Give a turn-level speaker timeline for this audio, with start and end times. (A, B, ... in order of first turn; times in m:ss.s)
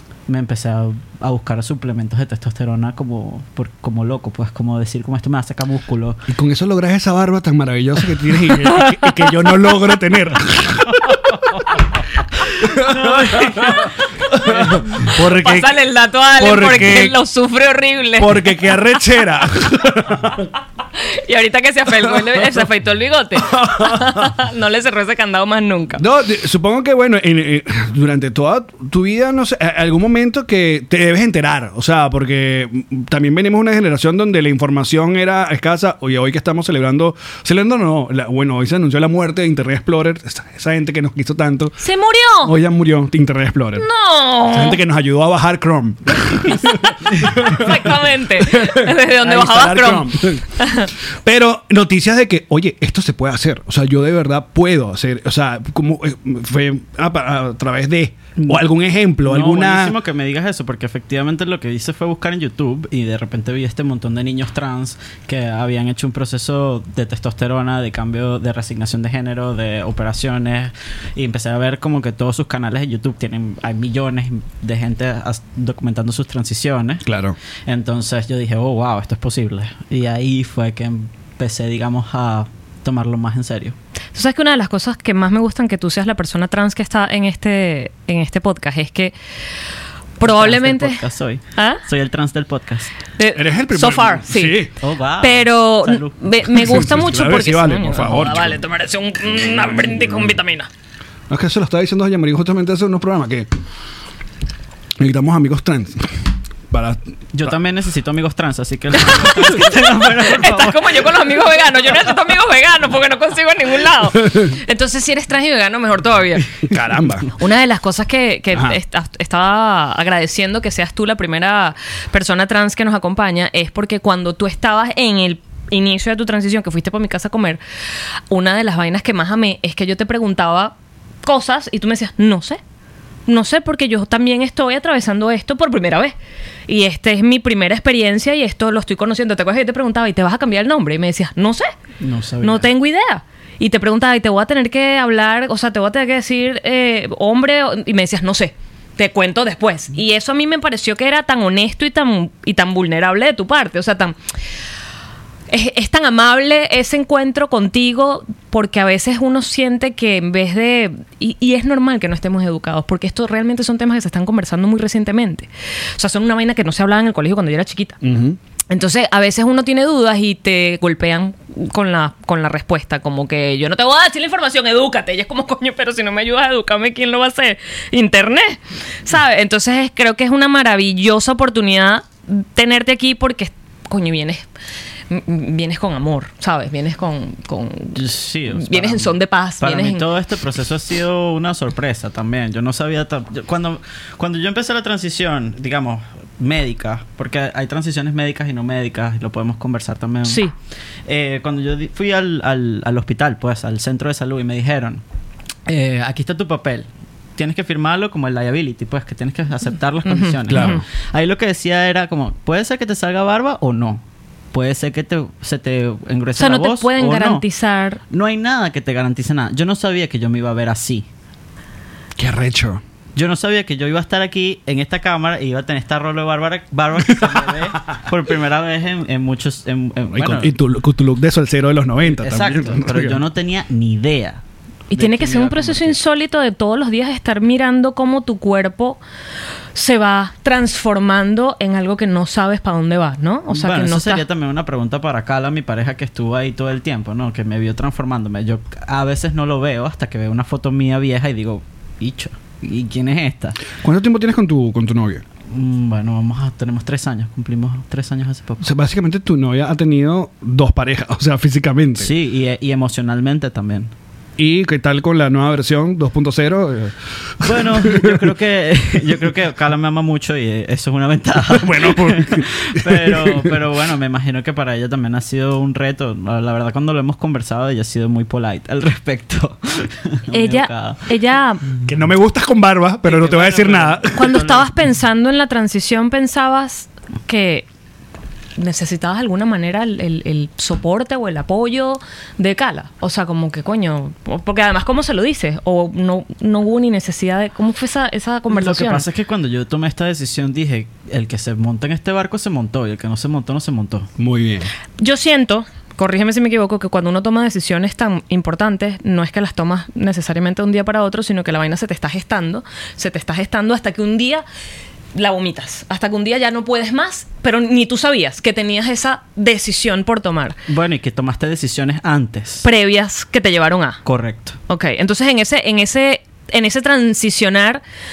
0:00.3-0:06.2 A
0:06.3-0:11.4 B
0:12.6-0:15.8 B
0:12.8-0:13.8 A
0:14.4-0:15.0 A
0:15.2-0:18.6 C
0:16.4-0:17.2 B
0:18.2-0:20.5 B
0:21.1-0:26.0 C
0:22.1-0:22.4 B
0:23.5-0:24.3 B
0:26.0-0:41.8 B
0:41.8-0:42.5 C
0:42.4-0:43.8 B
0:43.8-0:44.8 C
0:44.5-0:50.5 B
0:47.3-0:50.9 C
0:51.2-0:59.9 B
0:58.4-0:58.6 A
0:59.2-1:17.0 A
1:17.0-1:17.4 B
1:17.7-1:23.8 A
1:24.1-1:29.1 C
1:30.2-1:31.0 C
1:30.2-1:32.9 A
1:31.6-1:31.8 C
1:33.2-1:34.6 C
1:33.3-1:34.7 B
1:34.8-1:36.9 A
1:35.2-1:40.7 C
1:36.5-1:38.6 B
1:41.3-1:43.5 B
1:45.0-1:46.1 B
1:46.7-1:47.5 B
1:47.3-1:51.2 A
1:49.1-1:56.5 C
1:56.6-1:57.3 B
1:57.4-2:07.6 C
1:58.5-1:58.8 B
2:08.3-2:12.6 C
2:13.3-2:16.1 C
2:16.7-2:21.7 C
2:22.0-2:22.7 A
2:22.4-2:34.2 C
2:35.5-2:48.0 C
2:48.0-2:48.4 B
2:48.7-3:04.5 C
3:05.1-3:08.0 C
3:07.9-3:20.4 A
3:08.5-3:10.1 C
3:20.2-3:20.5 C
3:21.1-3:25.0 A
3:25.7-3:37.4 A
3:30.0-3:30.8 C
3:30.5-3:30.8 B
3:36.4-3:38.0 C
3:38.1-3:41.1 A
3:42.2-3:42.8 B
3:43.2-3:50.5 A
3:47.1-3:47.4 B
3:50.1-3:53.2 B
3:52.1-3:56.0 A
3:54.9-3:59.0 C
3:59.7-4:04.2 C
4:03.5-4:13.6 A
4:13.8-4:15.2 B
4:15.5-4:18.7 A
4:18.6-4:22.1 B
4:22.0-4:23.9 A
4:24.4-4:28.3 B
4:27.4-4:41.0 A
4:31.5-4:33.5 B
4:40.3-4:41.6 C
4:41.8-4:44.3 B
4:43.0-4:44.7 A
4:44.1-4:47.7 C
4:48.6-4:59.0 C
4:58.5-5:04.1 A
5:04.2-5:04.7 B
5:05.0-5:14.4 C
5:15.1-5:20.6 C
5:20.7-5:22.6 A
5:22.6-5:24.0 C
5:24.0-5:24.6 A
5:24.7-5:27.8 C